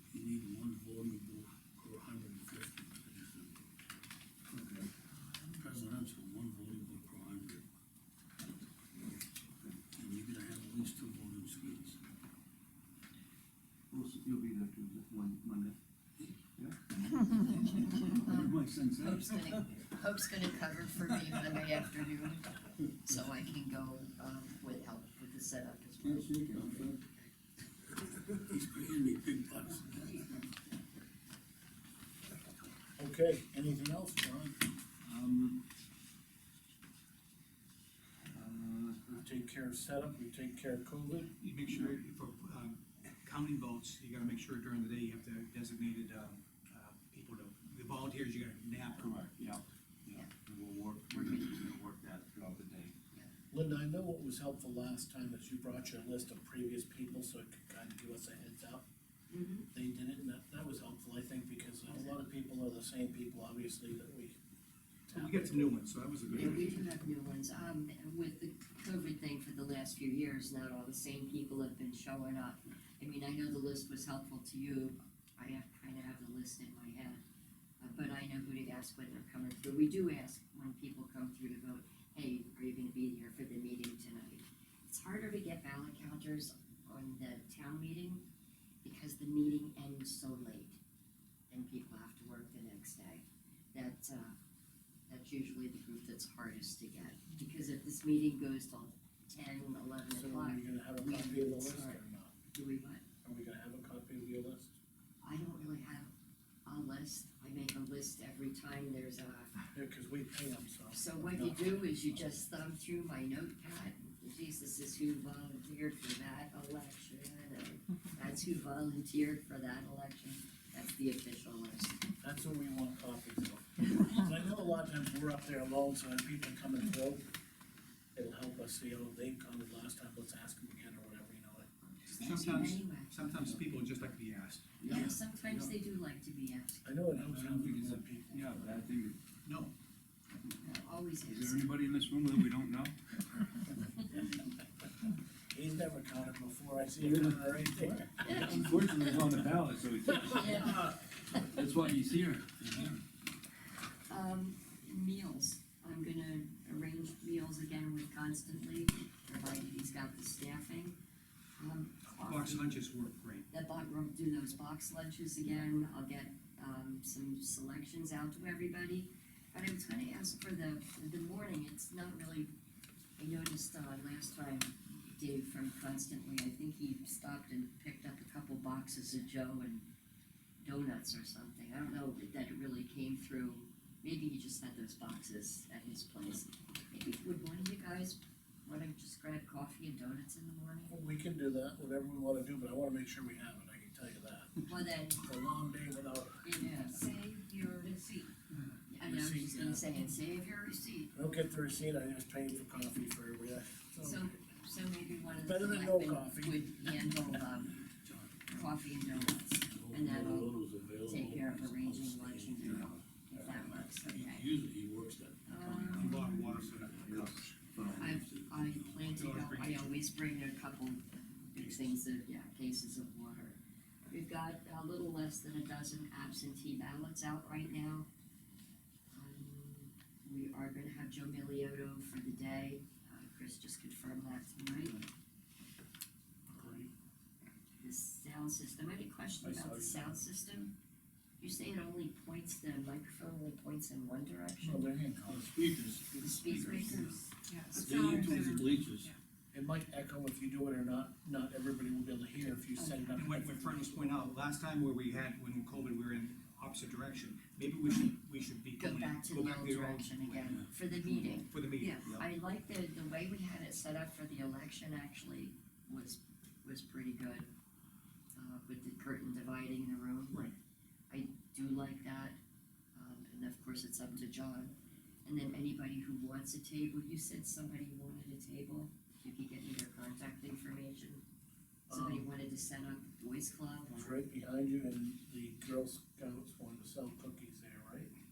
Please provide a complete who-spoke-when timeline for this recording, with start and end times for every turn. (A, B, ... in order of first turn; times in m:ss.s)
0:00.1-0:03.7 A
0:04.5-0:04.9 B
0:05.6-0:07.6 A
0:09.9-0:12.0 A
0:13.9-0:15.8 B
0:17.3-0:27.3 C
0:17.7-0:19.3 B
0:18.3-0:19.4 A
0:26.0-0:27.0 B
0:28.5-0:30.4 A
0:33.0-0:34.6 D
0:35.1-0:35.6 B
0:38.3-0:39.1 B
0:39.1-0:41.3 D
0:41.4-0:49.1 E
0:49.0-0:52.9 B
0:51.1-0:51.5 C
0:53.5-0:58.8 D
0:59.3-0:59.7 C
0:59.7-1:04.4 D
1:05.1-1:05.8 D
1:05.1-1:06.9 E
1:06.4-1:17.2 C
1:17.8-1:28.2 C
1:28.8-1:30.8 C
1:31.5-1:34.4 C
1:35.1-1:42.0 C
1:40.1-1:42.4 D
1:42.5-1:43.0 C
1:43.2-1:44.8 D
1:45.2-1:46.1 C
1:46.7-1:49.5 C
1:49.7-1:52.4 D
1:50.9-2:02.0 C
2:02.2-2:07.3 D
2:08.2-2:11.7 D
2:12.0-2:13.2 C
2:12.2-2:14.8 E
2:14.8-2:16.9 C
2:14.9-2:15.1 D
2:14.9-2:15.7 B
2:16.8-2:18.9 D
2:17.2-2:19.2 B
2:19.4-2:19.7 E
2:20.6-2:21.7 C
2:21.2-2:23.0 B
2:25.5-2:28.6 D
2:27.0-2:30.9 B
2:28.2-2:29.2 C
2:30.2-2:31.6 C
2:31.4-2:33.0 B
2:34.1-2:41.0 C
2:41.6-2:42.7 C
2:42.2-2:43.5 E
2:43.5-2:52.5 C
2:53.2-2:59.9 C
3:00.6-3:11.0 C
3:10.9-3:14.6 D
3:14.6-3:15.2 C
3:15.2-3:16.5 D
3:16.4-3:17.1 C
3:16.8-3:18.3 F
3:18.9-3:21.1 C
3:19.0-3:20.0 D
3:21.1-3:24.3 D
3:24.0-3:27.8 C
3:25.4-3:26.7 D
3:27.5-3:39.3 A
3:28.5-3:34.5 C
3:35.5-3:36.3 C
3:36.0-3:37.4 E
3:37.0-3:38.1 B
3:38.0-3:43.6 C
3:39.1-3:40.0 E
3:44.1-3:48.1 C
3:49.1-3:55.0 C
3:56.5-3:56.9 D
3:57.8-4:00.7 C
3:59.4-4:00.2 D
4:01.4-4:04.9 C
4:04.6-4:06.4 D
4:05.3-4:06.6 A
4:06.2-4:07.1 C
4:06.6-4:09.2 F
4:06.6-4:07.0 E
4:07.8-4:08.9 B
4:07.8-4:08.4 D
4:07.9-4:09.1 A
4:09.5-4:13.9 D
4:13.2-4:20.6 E
4:18.8-4:21.5 C
4:21.1-4:22.0 E
4:21.8-4:22.1 F
4:22.0-4:27.5 C
4:28.4-4:30.4 C
4:31.1-4:32.4 C
4:33.0-4:34.7 C
4:35.2-4:41.2 C
4:41.9-4:42.3 D
4:41.9-4:44.2 C
4:43.9-4:48.1 D